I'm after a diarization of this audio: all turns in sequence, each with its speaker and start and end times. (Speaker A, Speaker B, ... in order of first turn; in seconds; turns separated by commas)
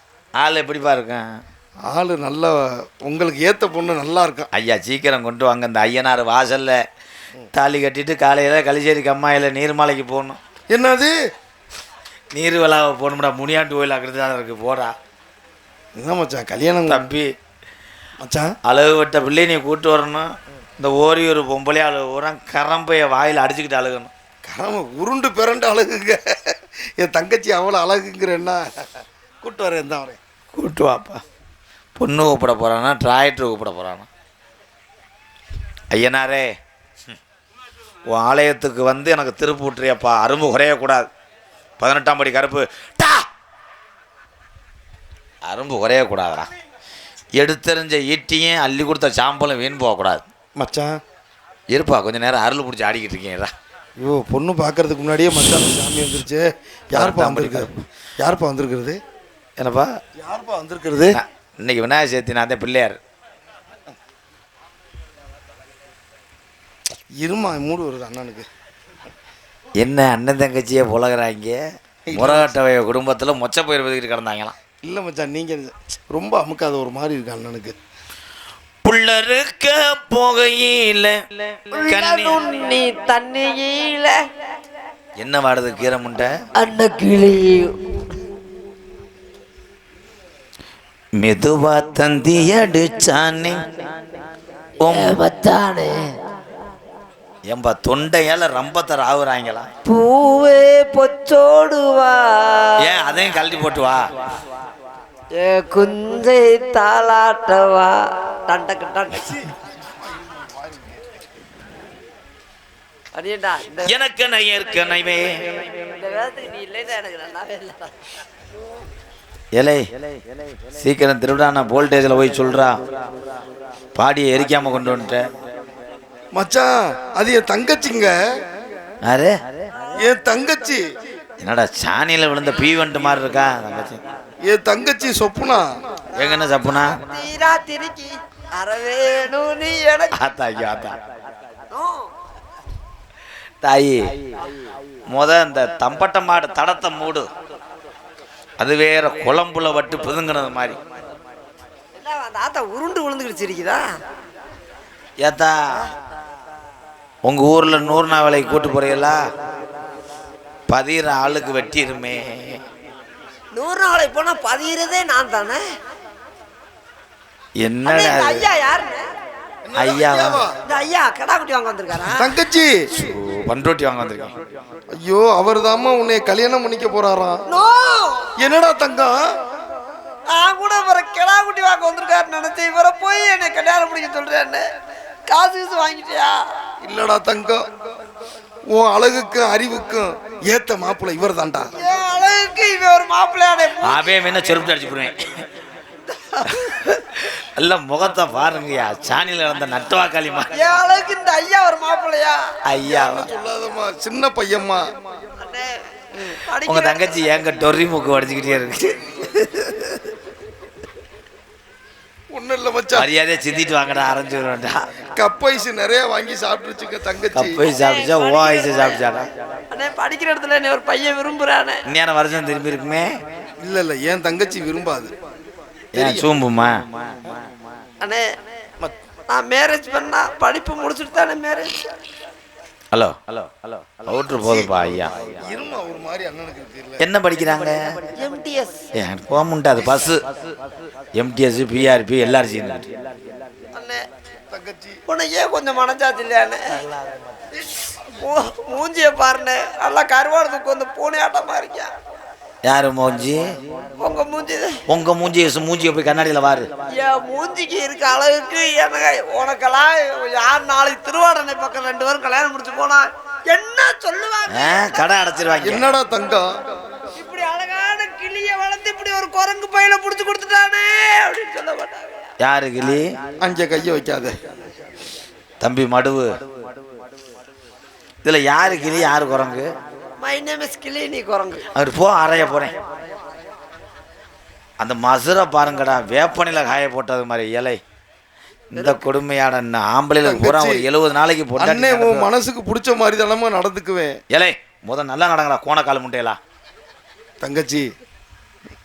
Speaker A: 0.4-1.3, Speaker B: 1.9-4.5, Speaker A: 4.5-6.8, Speaker A: 7.5-10.4, Speaker B: 10.7-11.1, Speaker A: 12.3-14.9, Speaker B: 15.9-17.1, Speaker A: 16.9-17.3, Speaker B: 18.2-18.5, Speaker A: 18.6-24.1, Speaker B: 24.5-26.2, Speaker B: 27.0-28.7, Speaker B: 29.4-30.2, Speaker A: 30.5-31.2, Speaker A: 32.0-34.1, Speaker A: 35.9-36.5, Speaker A: 38.1-41.1, Speaker A: 41.8-43.2, Speaker A: 45.5-46.5, Speaker A: 47.4-50.2, Speaker B: 50.6-51.0, Speaker A: 51.7-53.5, Speaker B: 54.0-59.0, Speaker A: 56.9-57.7, Speaker A: 59.6-59.9, Speaker B: 60.2-61.2, Speaker A: 61.2-63.0, Speaker B: 67.2-68.5, Speaker A: 69.8-71.6, Speaker B: 72.1-72.5, Speaker A: 72.1-74.5, Speaker B: 74.8-77.8, Speaker A: 78.8-82.4, Speaker C: 81.8-84.2, Speaker A: 85.2-86.3, Speaker C: 86.6-87.7, Speaker A: 91.2-93.7, Speaker A: 94.8-95.2, Speaker C: 94.9-96.0, Speaker A: 97.5-99.7, Speaker C: 99.8-102.7, Speaker A: 102.8-104.1, Speaker C: 105.4-107.9, Speaker C: 108.5-109.3, Speaker C: 113.1-113.9, Speaker A: 113.8-115.4, Speaker C: 115.9-117.9, Speaker A: 119.5-119.8, Speaker A: 120.8-122.8, Speaker A: 124.0-125.3, Speaker B: 126.3-128.1, Speaker A: 129.0-129.3, Speaker B: 130.0-130.8, Speaker A: 131.4-134.0, Speaker B: 134.5-135.7, Speaker A: 136.1-137.0, Speaker C: 136.7-140.2, Speaker A: 140.2-141.0, Speaker C: 141.7-142.0, Speaker A: 143.6-144.1, Speaker A: 145.1-147.3, Speaker A: 148.6-150.8, Speaker C: 151.9-153.8, Speaker A: 155.2-155.6, Speaker A: 157.2-159.2, Speaker A: 160.7-162.6, Speaker C: 163.5-165.6, Speaker A: 167.6-168.5, Speaker C: 167.8-169.1, Speaker B: 169.7-170.5, Speaker A: 169.8-170.4, Speaker C: 170.7-172.3, Speaker B: 172.2-172.7, Speaker A: 172.9-174.3, Speaker B: 175.0-177.4, Speaker C: 177.5-178.3, Speaker B: 178.4-179.2, Speaker C: 180.3-184.7, Speaker C: 185.3-186.4, Speaker B: 186.8-187.7, Speaker B: 188.7-191.7, Speaker C: 191.8-194.1, Speaker A: 193.8-195.2, Speaker C: 196.2-196.7, Speaker A: 196.7-200.5, Speaker C: 200.5-202.4, Speaker A: 202.7-203.3, Speaker B: 203.0-204.9, Speaker C: 205.4-207.2, Speaker A: 206.7-209.8, Speaker B: 212.3-213.1, Speaker A: 212.9-214.8, Speaker B: 215.2-217.6, Speaker A: 217.3-219.3, Speaker C: 217.7-219.0, Speaker C: 219.7-221.8, Speaker A: 221.9-223.1, Speaker B: 223.6-225.1, Speaker B: 225.9-226.3, Speaker A: 225.9-227.3, Speaker C: 228.0-228.3, Speaker C: 229.3-231.7, Speaker A: 232.9-235.2, Speaker B: 234.3-234.7, Speaker B: 235.3-237.0, Speaker A: 237.0-237.8, Speaker C: 238.2-238.8, Speaker A: 239.0-240.2, Speaker A: 241.2-242.9, Speaker C: 243.7-244.1, Speaker B: 244.5-245.0, Speaker C: 245.1-246.8, Speaker C: 248.2-251.9, Speaker A: 252.7-253.4, Speaker C: 254.0-254.8, Speaker A: 254.9-256.7, Speaker C: 256.9-265.1, Speaker A: 264.5-265.9, Speaker B: 265.6-266.5, Speaker C: 267.2-272.3, Speaker A: 272.4-273.1, Speaker B: 273.4-274.4, Speaker A: 275.6-276.4, Speaker A: 278.2-279.7, Speaker C: 280.2-281.7, Speaker A: 281.8-282.7, Speaker A: 284.8-287.8, Speaker A: 288.7-292.3, Speaker C: 288.8-289.0, Speaker B: 290.2-290.9, Speaker B: 291.6-294.2, Speaker A: 294.3-296.4, Speaker B: 297.4-297.9